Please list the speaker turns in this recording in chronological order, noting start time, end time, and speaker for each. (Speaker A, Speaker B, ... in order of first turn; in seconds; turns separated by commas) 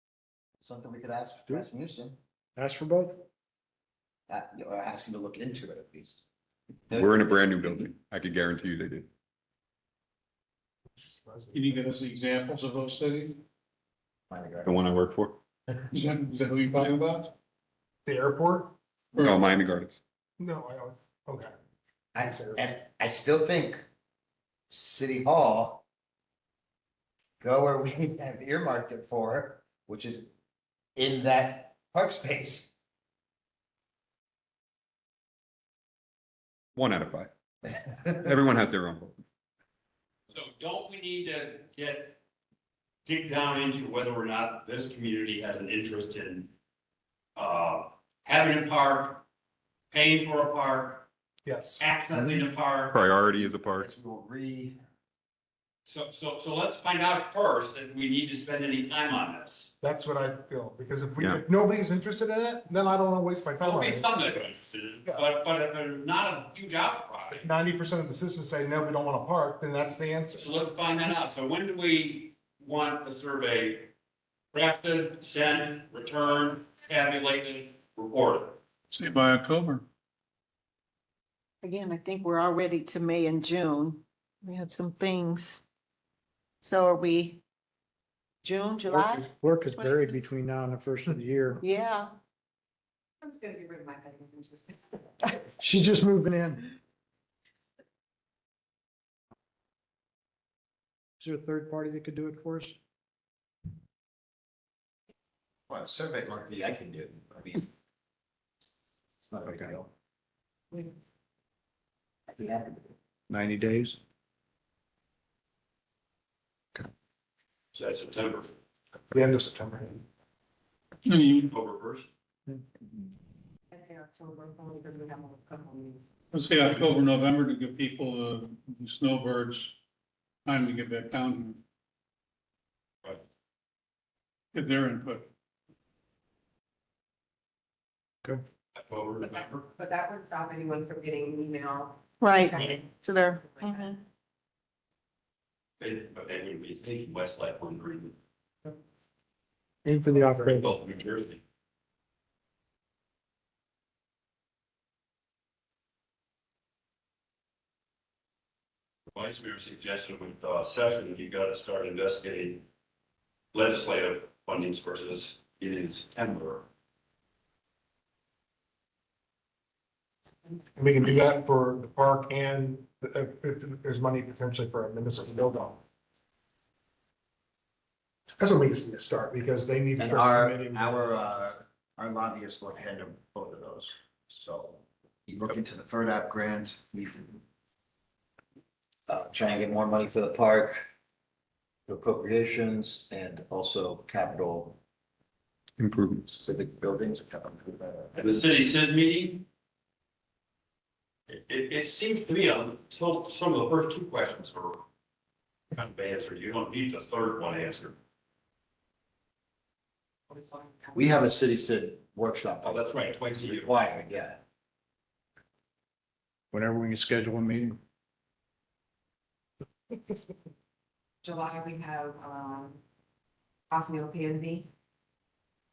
Speaker A: 0.6-2.2, Speaker B: 2.6-3.2, Speaker A: 4.3-6.2, Speaker A: 6.9-7.3, Speaker C: 6.9-9.1, Speaker D: 10.9-11.8, Speaker E: 11.5-13.4, Speaker A: 14.3-14.7, Speaker C: 14.6-15.4, Speaker E: 15.9-17.3, Speaker D: 18.1-18.7, Speaker E: 19.1-19.5, Speaker C: 19.2-20.0, Speaker D: 20.4-21.5, Speaker A: 22.1-23.9, Speaker D: 22.2-22.6, Speaker A: 24.7-25.8, Speaker A: 27.4-30.3, Speaker A: 31.0-32.7, Speaker C: 36.8-37.3, Speaker A: 37.9-38.2, Speaker C: 38.1-39.2, Speaker F: 40.3-42.2, Speaker F: 43.1-46.5, Speaker F: 47.4-49.2, Speaker F: 49.9-51.1, Speaker D: 51.5-51.9, Speaker F: 51.8-53.0, Speaker C: 52.9-53.9, Speaker A: 53.7-54.8, Speaker F: 55.9-59.7, Speaker D: 59.8-64.3, Speaker F: 63.6-67.4, Speaker D: 67.4-70.7, Speaker F: 70.3-73.9, Speaker F: 74.5-78.6, Speaker E: 78.9-79.8, Speaker G: 81.6-85.6, Speaker G: 86.6-87.4, Speaker G: 88.4-90.2, Speaker B: 88.9-91.6, Speaker G: 91.6-92.1, Speaker H: 93.2-95.3, Speaker B: 95.6-96.8, Speaker B: 101.2-102.8, Speaker A: 105.7-107.7, Speaker A: 109.2-109.9, Speaker B: 113.3-114.0, Speaker F: 117.7-118.5, Speaker D: 119.1-120.0, Speaker E: 121.0-121.5, Speaker F: 121.5-122.1, Speaker H: 123.7-126.0, Speaker E: 126.3-129.8, Speaker E: 130.5-131.6, Speaker E: 134.5-135.3, Speaker F: 138.8-139.7, Speaker H: 139.8-143.9, Speaker G: 142.2-144.0, Speaker F: 145.8-148.1, Speaker B: 149.8-150.8, Speaker F: 150.4-151.4, Speaker F: 159.1-162.6, Speaker F: 163.5-166.7, Speaker D: 170.8-175.8, Speaker D: 178.4-181.6, Speaker A: 180.0-187.4, Speaker A: 189.2-190.5, Speaker A: 191.9-194.7, Speaker C: 195.8-196.3, Speaker A: 196.3-198.2, Speaker F: 198.2-199.4, Speaker F: 201.3-204.8, Speaker F: 205.7-207.9, Speaker H: 210.3-211.3, Speaker A: 210.9-212.9, Speaker F: 212.6-213.7, Speaker A: 213.4-214.4, Speaker B: 216.5-217.8, Speaker H: 221.2-222.8, Speaker H: 223.7-224.7